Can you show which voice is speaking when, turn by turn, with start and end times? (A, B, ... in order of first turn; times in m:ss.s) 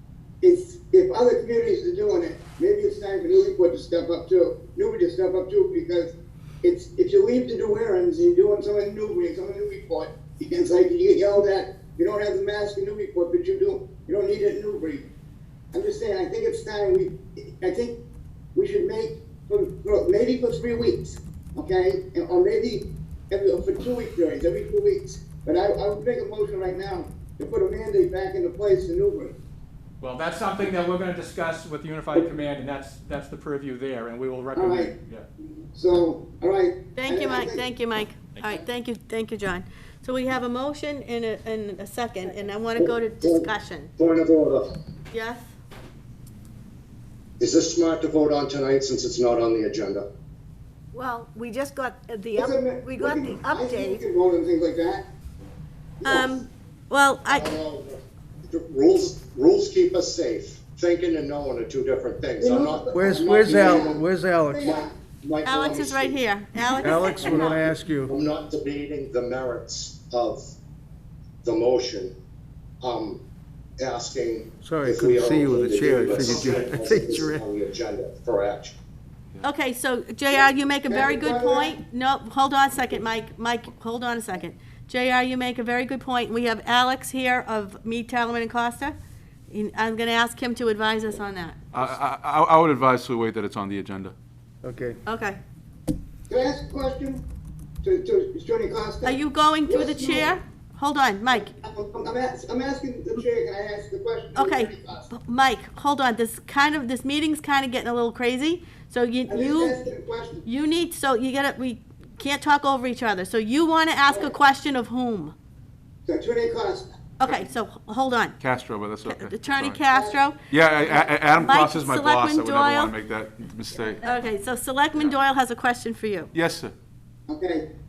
0:00.4-0:15.1 A
0:15.7-0:18.0 A
0:18.5-0:29.3 A
0:30.0-0:35.2 B
0:32.1-0:32.4 A
0:34.5-0:34.9 A
0:35.7-0:37.7 A
0:37.0-0:43.9 C
0:42.2-0:42.6 D
0:42.8-0:44.8 E
0:45.1-0:45.5 C
0:47.4-0:50.0 E
0:50.9-0:54.0 D
0:52.3-0:55.0 A
0:56.0-0:56.4 A
0:56.0-0:57.5 C
0:57.3-1:04.0 E
1:02.4-1:04.9 A
1:02.9-1:04.7 F
1:04.6-1:06.2 E
1:05.4-1:07.6 C
1:06.8-1:08.1 F
1:06.9-1:07.5 E
1:08.1-1:10.4 E
1:11.4-1:12.1 E
1:12.8-1:13.2 E
1:13.8-1:18.8 E
1:14.6-1:17.4 F
1:16.0-1:16.6 G
1:19.4-1:29.0 C
1:20.3-1:21.7 A
1:29.5-1:31.8 C
1:31.7-1:34.1 G
1:34.6-1:35.0 F
1:35.0-1:35.4 C
1:36.3-1:37.2 A
1:37.8-1:40.3 A
1:39.0-1:41.5 C
1:41.3-1:45.1 A
1:44.3-1:49.8 C
1:49.3-1:50.4 A
1:50.4-1:55.3 C
1:56.1-1:56.9 A
1:57.2-1:58.4 C
1:58.4-1:59.8 G
1:59.0-2:02.9 C
1:59.9-2:00.2 A
2:00.5-2:04.0 G
2:04.0-2:06.3 C
2:06.3-2:06.7 G
2:07.3-2:07.6 A